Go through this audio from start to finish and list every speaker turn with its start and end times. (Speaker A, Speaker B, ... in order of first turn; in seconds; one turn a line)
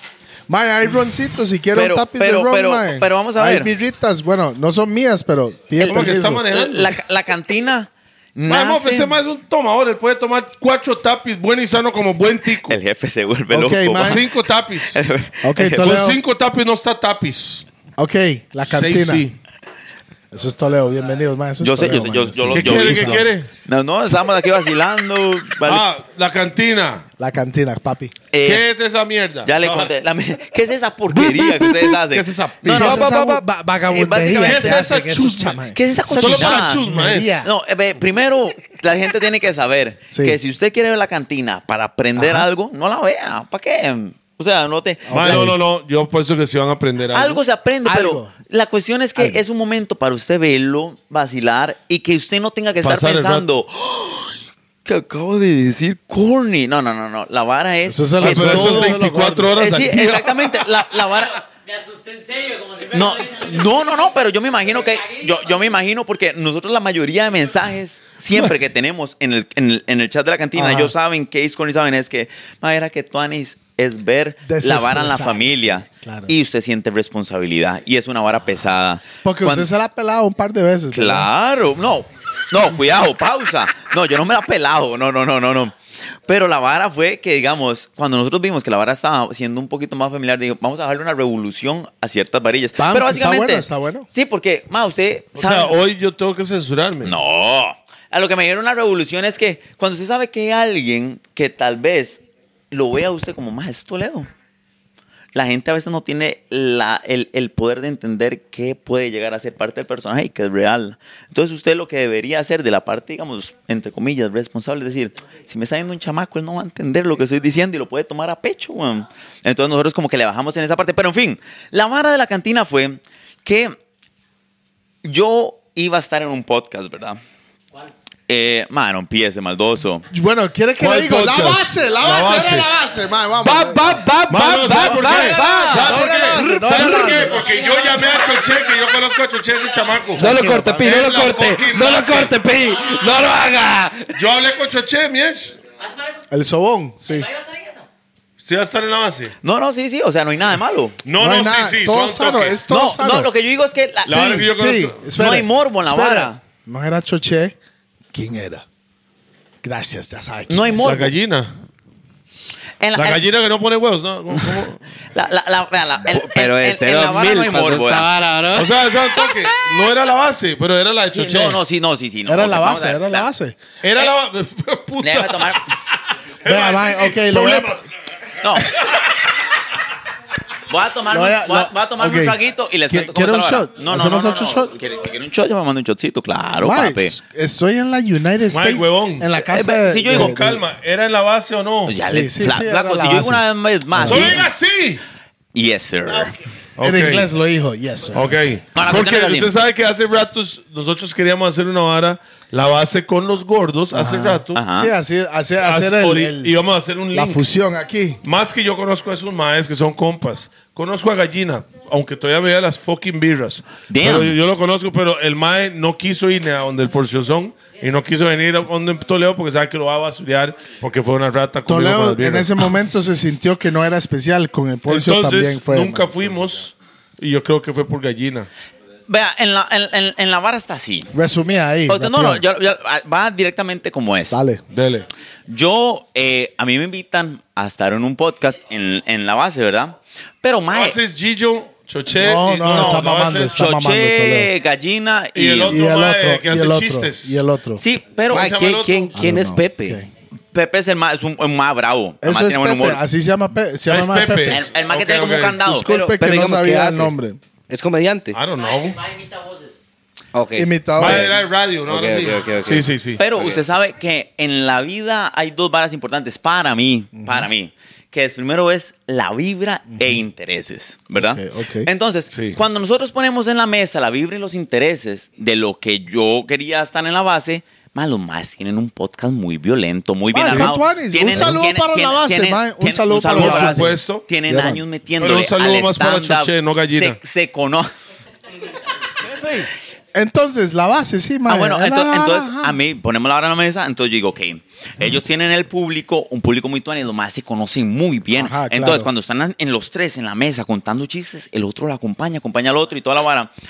Speaker A: 0.5-6.5
Speaker B: 1.7-3.7
Speaker B: 5.8-9.2
Speaker C: 5.8-6.9
Speaker C: 8.5-12.8
Speaker B: 12.7-14.2
Speaker A: 13.5-14.2
Speaker C: 14.0-15.0
Speaker B: 14.9-15.9
Speaker A: 15.4-16.2
Speaker C: 15.7-17.6
Speaker A: 18.0-19.3
Speaker C: 18.6-19.4
Speaker A: 20.3-23.3
Speaker B: 21.6-25.9
Speaker C: 22.5-23.5
Speaker C: 25.6-27.1
Speaker A: 27.2-28.1
Speaker B: 28.3-28.6
Speaker C: 28.4-29.9
Speaker B: 29.4-34.9
Speaker C: 31.2-33.1
Speaker A: 32.7-37.5
Speaker C: 34.4-37.5
Speaker B: 35.7-36.9
Speaker B: 37.4-45.5
Speaker A: 40.1-40.4
Speaker A: 42.2-42.5
Speaker A: 45.1-45.6
Speaker C: 45.1-47.4
Speaker B: 47.1-59.0
Speaker A: 47.9-48.3
Speaker C: 52.8-53.5
Speaker A: 57.9-59.6
Speaker C: 58.2-60.9
Speaker B: 59.5-61.4
Speaker D: 61.5-63.6
Speaker B: 62.9-79.7
Speaker A: 70.5-70.9
Speaker A: 74.5-76.3
Speaker A: 79.2-81.3
Speaker B: 80.9-95.8
Speaker A: 92.8-94.1
Speaker C: 95.4-97.2
Speaker B: 97.0-104.3
Speaker B: 105.3-123.8
Speaker B: 125.0-127.2
Speaker B: 128.3-130.1
Speaker A: 130.1-134.0
Speaker C: 130.8-132.7
Speaker E: 132.2-132.6
Speaker E: 133.4-137.2
Speaker C: 134.3-142.3
Speaker A: 134.8-137.5
Speaker D: 137.4-138.4
Speaker E: 140.2-144.2
Speaker A: 140.2-141.1
Speaker C: 144.2-145.6
Speaker D: 145.8-146.2
Speaker A: 146.3-147.3
Speaker D: 147.1-147.8
Speaker C: 148.4-149.3
Speaker B: 149.4-151.0
Speaker C: 151.1-152.6
Speaker A: 151.2-153.3
Speaker B: 152.7-154.5
Speaker C: 154.1-155.1
Speaker A: 154.2-157.6
Speaker B: 155.2-156.4
Speaker A: 158.1-158.7
Speaker A: 159.6-160.9
Speaker B: 160.5-161.1
Speaker C: 160.8-161.5
Speaker B: 162.8-163.2
Speaker C: 163.0-164.8
Speaker B: 164.3-164.6
Speaker B: 165.1-168.1
Speaker E: 166.0-168.8
Speaker C: 168.6-171.6
Speaker B: 171.1-173.3
Speaker A: 172.3-173.6
Speaker C: 173.8-177.9
Speaker B: 175.0-175.7
Speaker A: 176.4-177.7
Speaker B: 178.4-178.7
Speaker B: 180.7-187.2
Speaker A: 181.1-184.7
Speaker A: 186.6-190.7
Speaker C: 188.5-189.3
Speaker B: 189.5-190.3
Speaker C: 190.1-192.0
Speaker B: 191.9-194.5
Speaker A: 192.0-194.4
Speaker C: 194.1-195.0
Speaker B: 195.5-196.4
Speaker C: 196.8-197.3
Speaker A: 196.8-198.4
Speaker C: 198.1-204.6
Speaker B: 198.7-199.5
Speaker A: 203.9-206.5
Speaker B: 204.5-204.9
Speaker C: 205.6-207.5
Speaker A: 207.1-208.2
Speaker C: 208.2-222.7
Speaker B: 213.9-214.4
Speaker A: 221.7-226.5
Speaker C: 224.9-228.5
Speaker B: 229.1-231.1
Speaker A: 231.1-232.4
Speaker B: 231.9-234.4
Speaker A: 234.3-234.6
Speaker C: 234.7-235.1
Speaker B: 235.5-241.0
Speaker C: 240.7-243.7
Speaker A: 242.1-244.5
Speaker B: 242.7-245.8
Speaker C: 245.3-247.4
Speaker A: 245.7-247.8
Speaker B: 247.8-248.5
Speaker E: 248.3-250.0
Speaker C: 248.3-249.1
Speaker A: 249.2-250.1
Speaker B: 250.5-253.0
Speaker A: 252.2-254.6
Speaker C: 253.9-255.6
Speaker B: 254.5-255.9
Speaker A: 255.6-257.4
Speaker E: 255.9-257.1
Speaker E: 257.7-258.4
Speaker C: 258.3-259.0
Speaker D: 258.5-259.9
Speaker E: 260.3-262.9
Speaker A: 260.5-261.3
Speaker C: 261.0-263.2
Speaker B: 263.2-287.9
Speaker A: 267.2-267.5
Speaker A: 269.9-270.2
Speaker A: 271.1-271.9
Speaker C: 272.3-272.6
Speaker A: 280.3-284.8
Speaker C: 283.3-284.2
Speaker C: 285.2-287.2
Speaker C: 289.2-289.7
Speaker A: 290.1-292.8
Speaker B: 291.5-303.5
Speaker A: 298.3-299.1